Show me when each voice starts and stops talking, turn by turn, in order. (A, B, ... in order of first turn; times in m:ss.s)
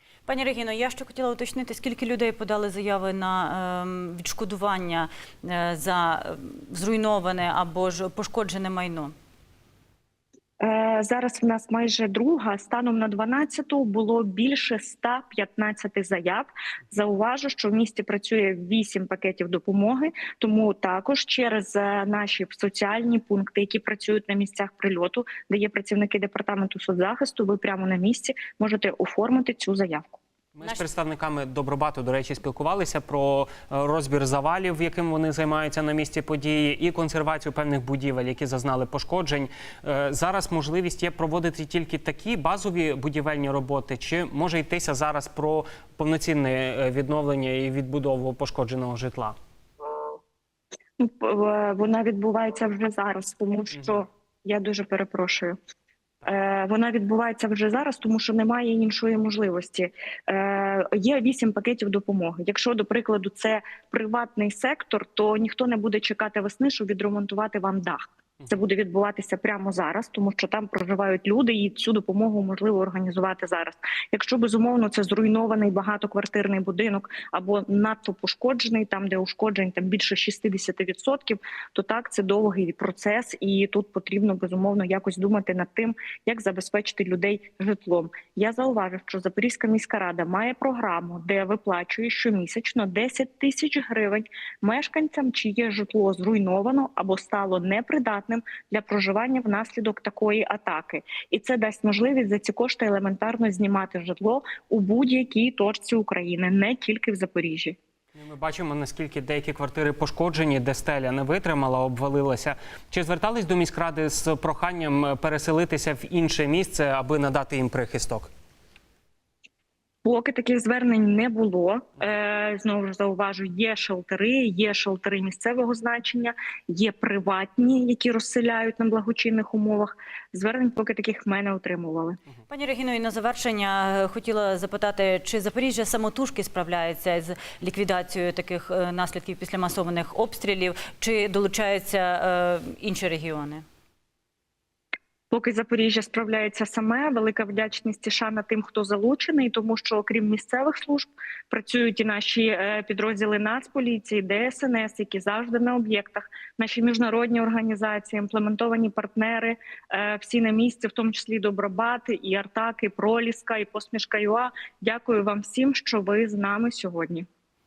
0:00.3-0:09.1 A
0:10.6-0:30.2 B
0:30.6-0:49.4 C
0:51.0-0:55.6 B
0:56.2-1:47.8 B
1:48.2-1:58.3 C
2:00.0-2:12.2 B
2:12.5-2:23.6 A
2:25.3-2:47.3 B